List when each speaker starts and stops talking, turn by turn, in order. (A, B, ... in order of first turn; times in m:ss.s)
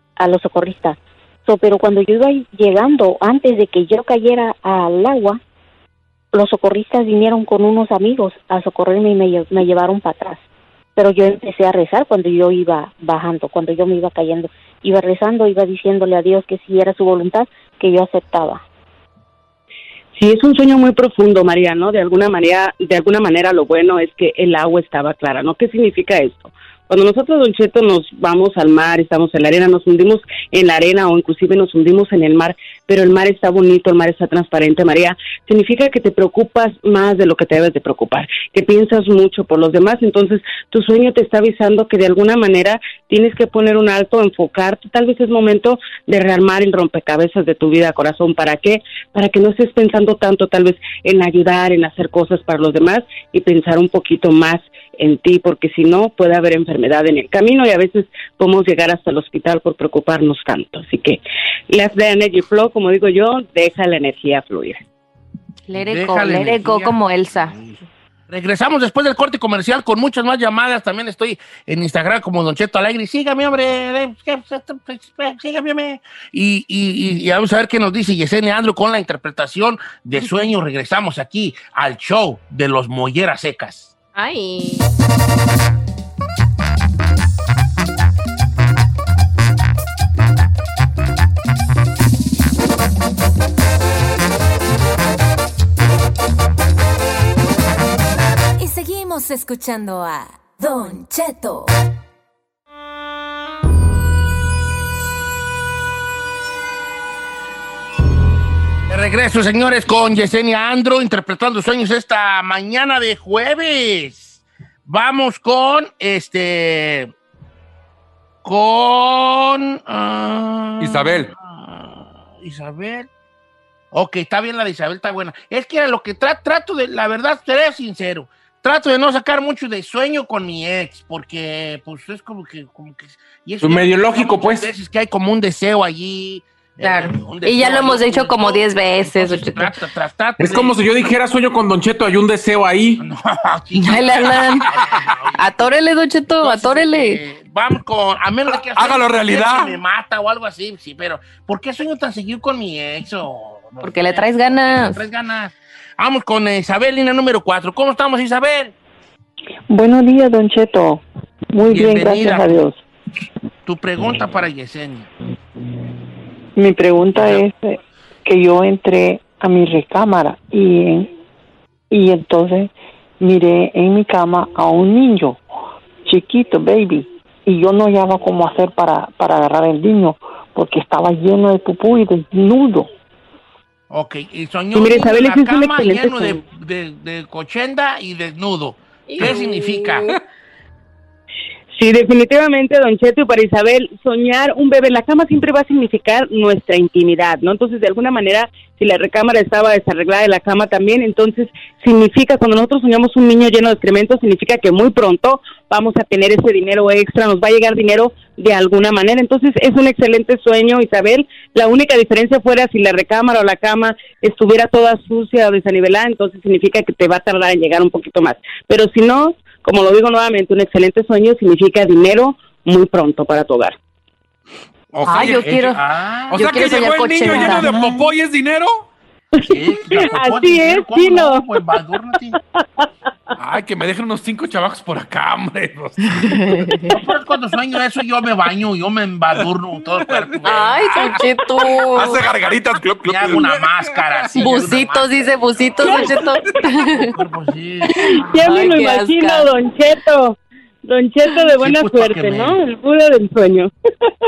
0:00.2-0:05.4 A
0:06.3-0:10.4 A
0:11.0-0:18.6 A
0:20.1-1:04.8 B
1:05.7-1:07.6 C
1:05.7-1:23.9 D
1:24.1-1:24.9 C
1:38.6-1:41.7 E
1:48.9-1:57.1 D
1:58.4-2:03.1 D
2:00.8-2:01.3 F
2:03.9-2:20.8 D
2:13.6-2:14.7 G
2:16.8-2:19.8 C
2:20.4-2:23.0 G
2:23.0-2:25.7 D
2:23.8-2:24.7 C
2:25.3-2:27.2 C
2:26.4-2:38.7 D
2:28.7-2:29.8 F
2:33.8-2:35.0 C
2:39.7-2:42.8 H
2:41.7-2:42.6 D
2:43.6-2:45.1 D
2:46.6-2:51.1 H
2:47.1-2:47.4 D
2:51.9-2:55.4 H
2:56.0-3:02.9 H
3:03.9-3:10.1 D
3:04.7-3:06.4 B
3:09.1-3:10.1 C
3:11.7-3:43.8 B
3:44.9-3:47.7 D
3:45.0-3:48.1 C
3:45.1-3:45.4 F
3:46.3-3:48.9 F
3:49.4-3:51.4 B
3:49.4-3:52.4 D
3:53.4-3:56.1 F
3:56.2-3:56.9 C
3:56.9-4:01.2 D
4:00.1-4:01.2 F
4:00.4-4:02.2 C
4:01.8-4:03.7 F
4:03.0-4:06.2 D
4:04.2-4:04.5 F
4:04.4-4:07.1 C
4:05.8-4:06.5 F
4:06.9-4:08.7 D
4:07.9-4:09.5 C
4:08.3-4:14.1 B
4:11.6-4:12.6 D